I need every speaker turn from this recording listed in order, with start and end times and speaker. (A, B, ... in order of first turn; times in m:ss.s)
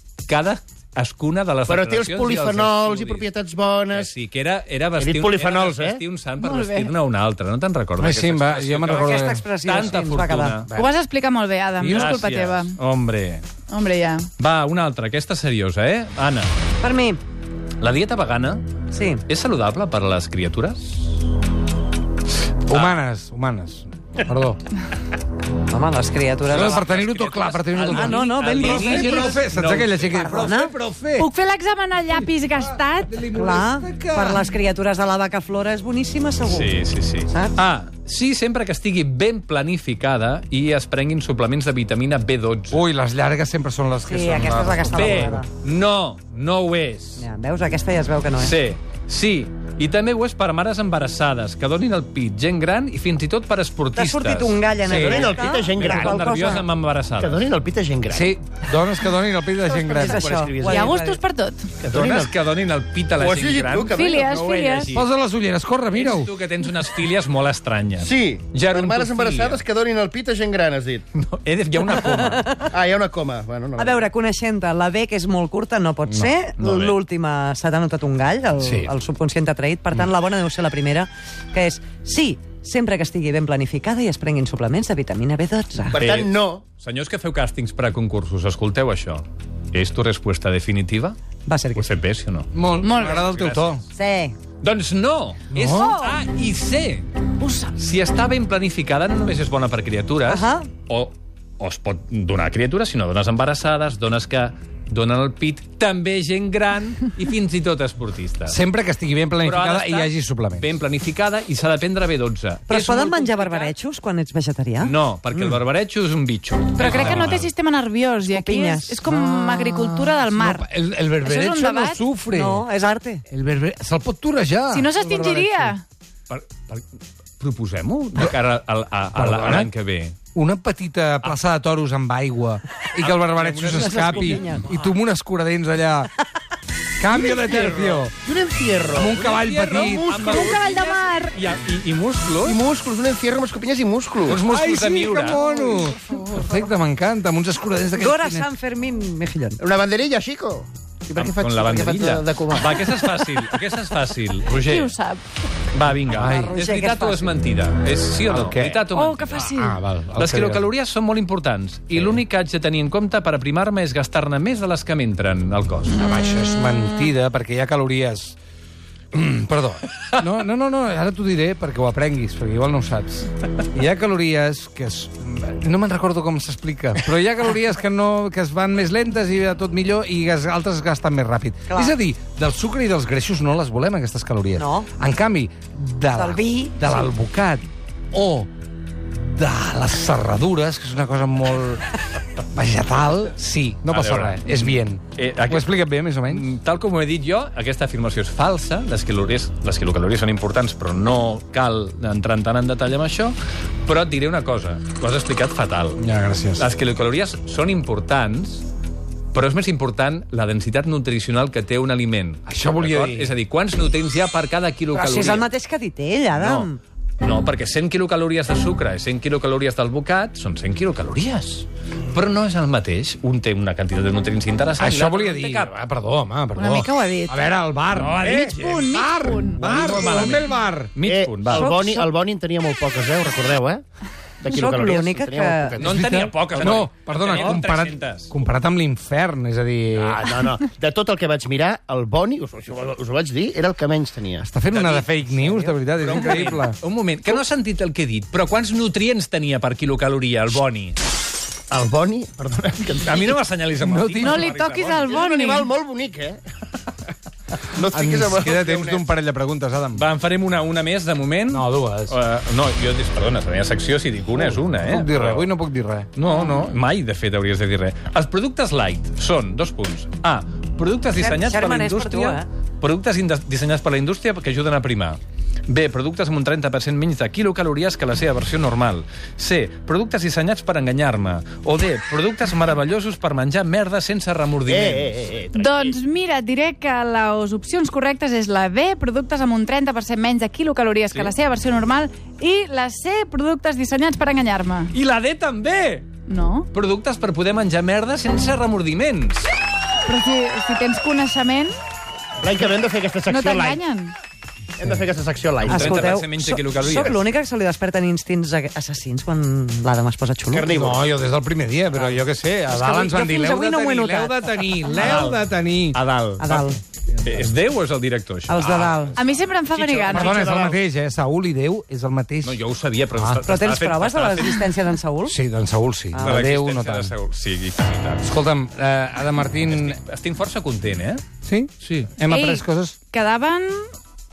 0:00.3-0:03.3 A
0:01.6-0:04.1 B
0:03.9-0:10.7 A
0:05.0-0:06.0 B
0:06.4-0:06.9 C
0:08.0-0:09.4 D
0:08.9-0:10.6 E
0:10.7-0:12.8 C
0:11.8-0:12.1 D
0:11.8-0:13.4 A
0:13.7-0:14.3 C
0:14.4-0:16.5 A
0:16.8-0:17.2 E
0:17.8-0:20.9 A
0:18.9-0:19.2 E
0:22.7-0:24.6 D
0:22.7-0:23.0 A
0:25.7-0:26.8 E
0:26.4-0:30.3 A
0:26.5-0:31.3 D
0:27.8-0:29.4 E
0:30.1-0:30.7 E
0:31.2-0:33.1 C
0:32.1-0:34.4 D
0:33.3-0:36.7 E
0:36.4-0:42.8 A
0:37.3-0:37.5 E
0:42.7-0:45.4 D
0:44.1-0:45.5 E
0:44.9-0:47.2 A
0:47.2-0:48.6 E
0:48.4-0:57.4 A
0:53.9-0:56.6 E
0:54.8-0:56.3 B
0:57.2-0:58.3 B
0:58.1-1:00.3 D
0:59.6-1:01.2 E
0:59.9-1:00.9 B
1:00.6-1:01.8 C
1:01.8-1:02.3 B
1:01.9-1:05.0 A
1:03.2-1:04.6 B
1:03.9-1:04.9 C
1:04.9-1:06.3 D
1:05.9-1:09.6 A
1:08.0-1:11.0 B
1:11.1-1:12.6 A
1:12.1-1:12.5 E
1:12.6-1:14.1 B
1:13.8-1:26.0 E
1:16.6-1:17.0 A
1:18.6-1:18.9 D
1:25.9-1:26.6 B
1:26.0-1:31.2 A
1:31.4-1:31.9 E
1:31.7-1:33.8 A
1:32.5-1:33.8 D
1:32.8-1:33.2 C
1:33.9-1:34.4 E
1:34.6-1:37.2 A
1:35.5-1:36.1 D
1:35.6-1:36.2 C
1:37.4-1:37.7 C
1:37.7-1:48.6 A
1:40.2-1:40.7 E
1:48.5-1:50.7 D
1:49.4-1:53.7 A
1:52.7-1:55.5 E
1:54.8-1:57.5 A
1:56.8-2:00.6 C
1:56.8-1:57.3 D
1:58.3-1:59.0 E
1:59.0-2:02.7 D
2:01.2-2:02.0 C
2:02.3-2:03.2 E
2:03.3-2:05.7 D
2:04.7-2:05.8 C
2:06.3-2:06.8 A
2:07.4-2:10.2 A
2:09.1-2:09.7 D
2:10.3-2:16.1 D
2:13.0-2:14.6 A
2:13.7-2:14.7 E
2:17.0-2:18.1 D
2:17.1-2:19.2 B
2:18.9-2:20.1 D
2:19.0-2:22.6 A
2:19.7-2:20.6 B
2:20.3-2:21.3 C
2:20.5-2:21.2 E
2:22.4-2:24.4 B
2:24.2-2:28.5 D
2:24.2-2:25.4 A
2:28.0-2:29.6 E
2:29.6-2:33.1 B
2:31.2-2:34.9 A
2:34.5-2:35.2 C
2:35.7-2:39.6 A
2:36.1-2:36.5 D
2:36.2-2:37.4 E
2:38.3-2:38.8 D
2:38.9-2:39.8 C
2:39.4-2:40.6 D
2:40.2-2:46.0 A
2:41.9-2:42.2 D
2:45.9-2:48.4 D
2:49.1-3:08.5 D
3:01.7-3:01.9 E
3:04.6-3:04.9 E
3:06.1-3:07.1 E
3:09.1-3:11.9 D
3:12.4-3:16.5 D
3:13.9-3:15.7 A
3:16.2-3:26.0 A
3:26.0-3:26.7 D
3:26.6-3:28.7 A
3:29.3-3:35.5 A
3:32.5-3:33.3 D
3:34.9-3:36.8 E
3:36.4-3:36.7 A
3:37.2-3:45.7 A
3:44.8-3:50.9 D
3:46.6-3:47.4 C
3:47.9-3:48.9 A
3:48.6-3:49.6 C
3:49.6-3:51.8 A
3:49.8-3:50.3 B
3:51.0-3:53.8 B
3:51.5-3:52.1 E
3:54.4-3:56.7 B
3:54.5-3:55.8 E
3:55.8-3:58.3 A
3:55.8-4:00.2 D
4:00.0-4:04.4 B
4:04.4-4:06.8 D
4:04.7-4:05.2 A
4:05.4-4:05.7 E
4:05.9-4:11.0 A
4:11.7-4:13.4 B
4:13.0-4:15.1 A
4:13.8-4:14.6 D
4:14.2-4:15.7 C
4:15.0-4:16.4 B
4:17.7-4:19.1 B
4:17.9-4:20.0 D
4:19.9-4:25.5 A
4:21.5-4:22.2 D
4:24.4-4:26.1 D
4:26.1-4:45.2 A
4:31.1-4:32.5 E
4:44.6-4:46.0 B
4:45.5-4:54.9 C
4:54.9-4:56.2 A
4:56.3-4:56.7 C
4:56.7-4:59.5 A
5:00.0-5:01.7 C
5:02.4-5:03.8 B
5:03.3-5:04.2 C
5:04.8-5:06.1 B
5:05.6-5:07.2 A
5:05.6-5:10.7 E
5:10.5-5:11.1 B
5:10.7-5:17.4 D
5:12.7-5:14.8 E
5:14.9-5:15.4 B
5:15.9-5:16.4 B
5:16.4-5:16.8 E
5:17.2-5:18.6 A
5:18.5-5:19.2 E
5:18.6-5:19.1 D
5:19.2-5:20.3 C
5:19.7-5:20.4 A
5:19.8-5:20.8 B
5:20.1-5:22.6 D
5:22.4-5:24.7 A
5:23.1-5:23.4 D
5:23.4-5:25.4 E
5:25.2-5:27.1 D
5:26.1-5:26.4 E
5:26.2-5:28.2 A
5:28.2-5:30.0 D
5:29.6-5:31.2 A
5:31.4-5:33.0 D
5:31.8-5:32.2 A
5:32.2-5:33.9 C